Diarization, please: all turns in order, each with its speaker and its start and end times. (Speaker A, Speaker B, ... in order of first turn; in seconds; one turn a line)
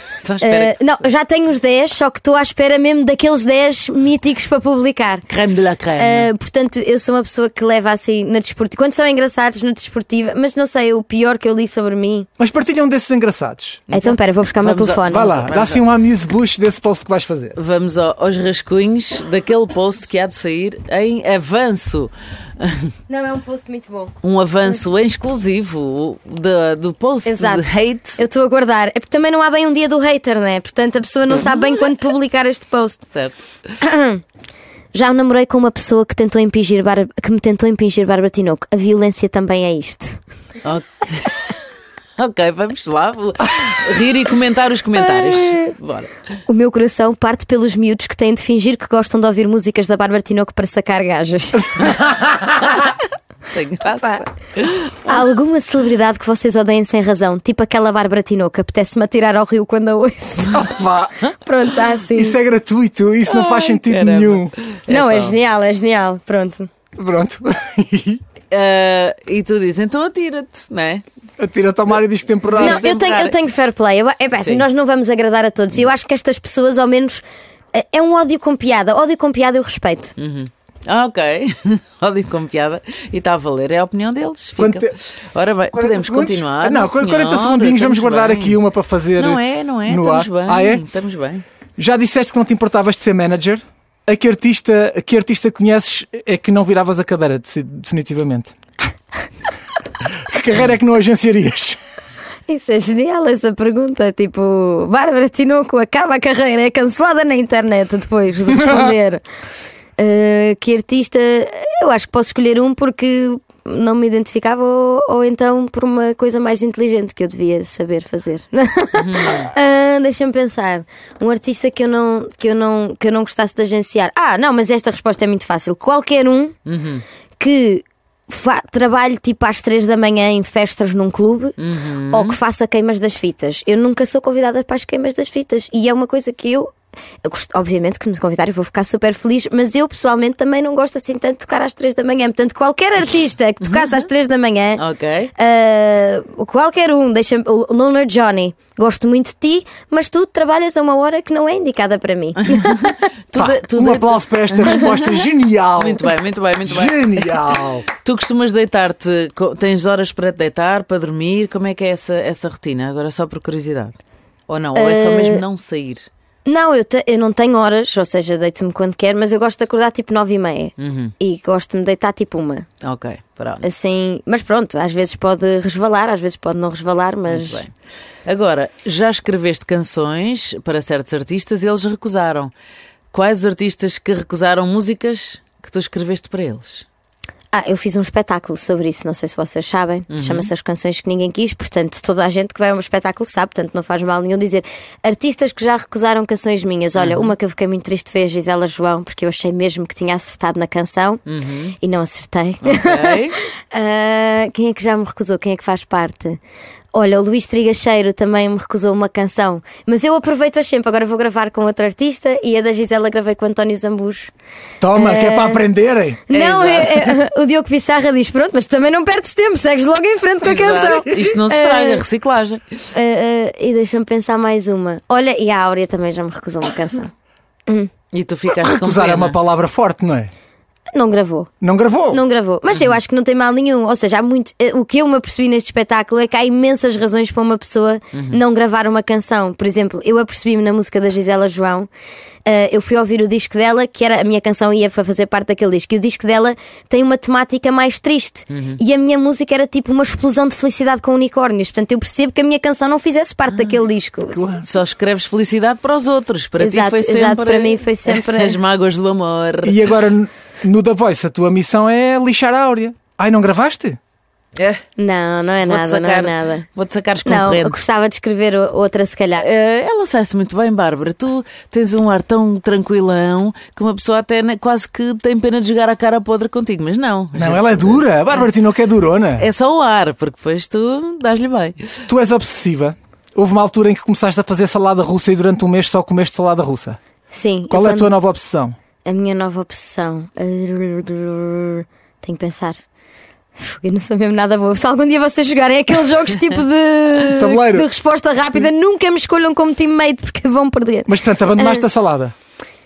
Speaker A: 0.2-1.1
Speaker B: 0.4-5.3
Speaker A: 5.3-6.3
Speaker B: 6.0-12.3
Speaker C: 12.4-13.9
Speaker A: 13.9-15.9
Speaker B: 13.9-15.3
Speaker C: 15.0-17.6
Speaker A: 17.6-22.9
Speaker B: 23.1-24.1
Speaker A: 24.2-28.2
Speaker B: 27.3-33.1
Speaker A: 31.3-31.6
Speaker A: 33.1-33.4
Speaker B: 33.8-34.2
Speaker B: 34.9-40.2
Speaker A: 40.6-41.4
Speaker A: 42.2-46.2
Speaker B: 46.5-52.0
Speaker C: 52.0-52.2
Speaker A: 53.5-55.2
Speaker B: 55.0-60.6
Speaker C: 60.5-61.3
Speaker B: 61.4-62.4
Speaker C: 62.1-64.5
Speaker A: 63.3-65.4
Speaker B: 64.9-66.7
Speaker C: 67.0-68.2
Speaker A: 68.5-71.0
Speaker C: 71.4-72.9
Speaker B: 72.5-80.1
Speaker A: 72.5-73.4
Speaker A: 74.4-74.6
Speaker A: 80.2-88.6
Speaker C: 84.6-84.9
Speaker C: 85.7-90.8
Speaker A: 89.2-91.4
Speaker C: 91.8-98.5
Speaker C: 100.3-101.8
Speaker B: 102.5-109.2
Speaker B: 110.0-126.5
Speaker A: 119.0-119.5
Speaker A: 126.7-127.0
Speaker B: 127.4-144.8
Speaker A: 131.6-132.4
Speaker A: 144.8-145.3
Speaker B: 145.4-152.9
Speaker A: 152.4-155.1
Speaker C: 153.3-156.1
Speaker A: 155.8-157.4
Speaker C: 156.7-157.9
Speaker A: 158.0-166.1
Speaker B: 164.8-165.4
Speaker B: 166.5-172.7
Speaker A: 170.8-171.1
Speaker A: 172.8-173.7
Speaker B: 173.6-177.6
Speaker A: 177.3-177.7
Speaker A: 178.3-182.5
Speaker A: 183.1-186.9
Speaker B: 187.5-201.2
Speaker A: 190.1-190.5
Speaker A: 197.0-197.3
Speaker A: 201.3-201.7
Speaker B: 201.8-206.4
Speaker A: 202.6-203.4
Speaker B: 206.9-214.3
Speaker C: 214.8-216.2
Speaker B: 214.9-215.6
Speaker B: 216.3-222.0
Speaker A: 216.3-217.2
Speaker A: 220.4-222.8
Speaker B: 222.9-227.1
Speaker B: 227.7-227.9
Speaker A: 228.1-229.4
Speaker C: 228.5-230.3
Speaker B: 230.9-231.5
Speaker C: 231.6-232.2
Speaker B: 232.1-241.9
Speaker A: 238.1-238.4
Speaker B: 242.5-254.5
Speaker A: 248.5-248.8
Speaker C: 254.3-254.7
Speaker A: 254.6-259.8
Speaker B: 256.6-258.6
Speaker C: 259.6-264.0
Speaker A: 264.6-264.8
Speaker B: 265.0-266.7
Speaker A: 265.6-267.8
Speaker B: 267.2-269.5
Speaker A: 269.4-278.1
Speaker C: 277.4-279.5
Speaker A: 279.4-282.0
Speaker C: 282.1-287.0
Speaker B: 287.3-288.1
Speaker C: 287.7-288.8
Speaker B: 289.0-292.8
Speaker B: 293.6-301.8
Speaker C: 297.4-297.9
Speaker C: 301.1-302.3